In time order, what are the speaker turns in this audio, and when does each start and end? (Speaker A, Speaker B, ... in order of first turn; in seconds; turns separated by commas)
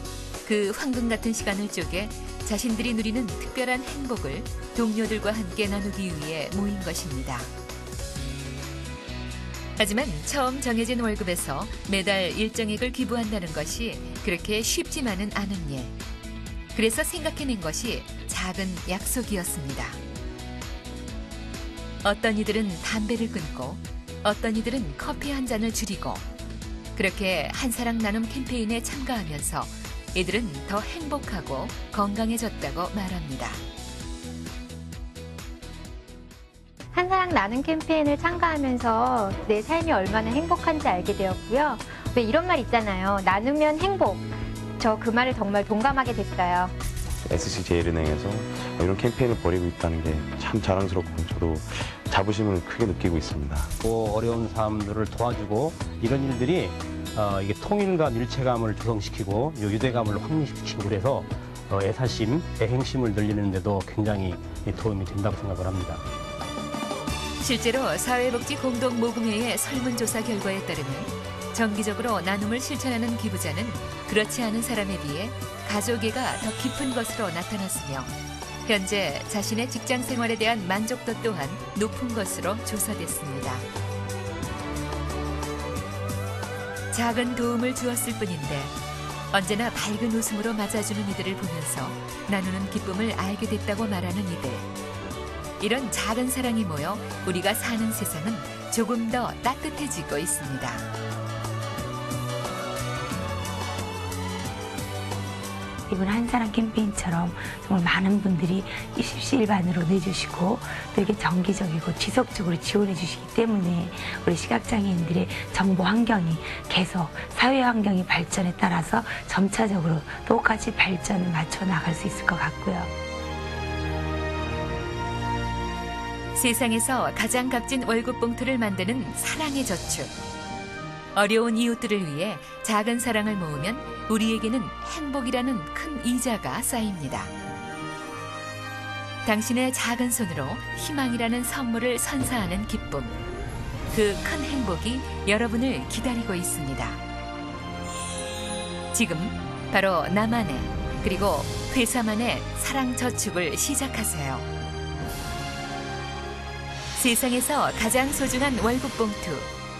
Speaker A: 0.4-7.5, Speaker A: 9.8-16.0, Speaker A: 16.7-20.0, Speaker A: 22.0-26.2, Speaker A: 26.9-33.6, Speaker B: 36.9-44.3, Speaker B: 44.8-46.7, Speaker C: 47.2-53.7, Speaker D: 53.8-66.0, Speaker A: 67.4-83.7, Speaker A: 86.9-88.8, Speaker A: 89.3-94.7, Speaker A: 95.6-100.9, Speaker E: 105.9-122.9, Speaker A: 126.3-130.1, Speaker A: 131.1-137.3, Speaker A: 139.2-143.2, Speaker A: 143.9-147.0, Speaker A: 148.9-154.5, Speaker A: 156.9-159.5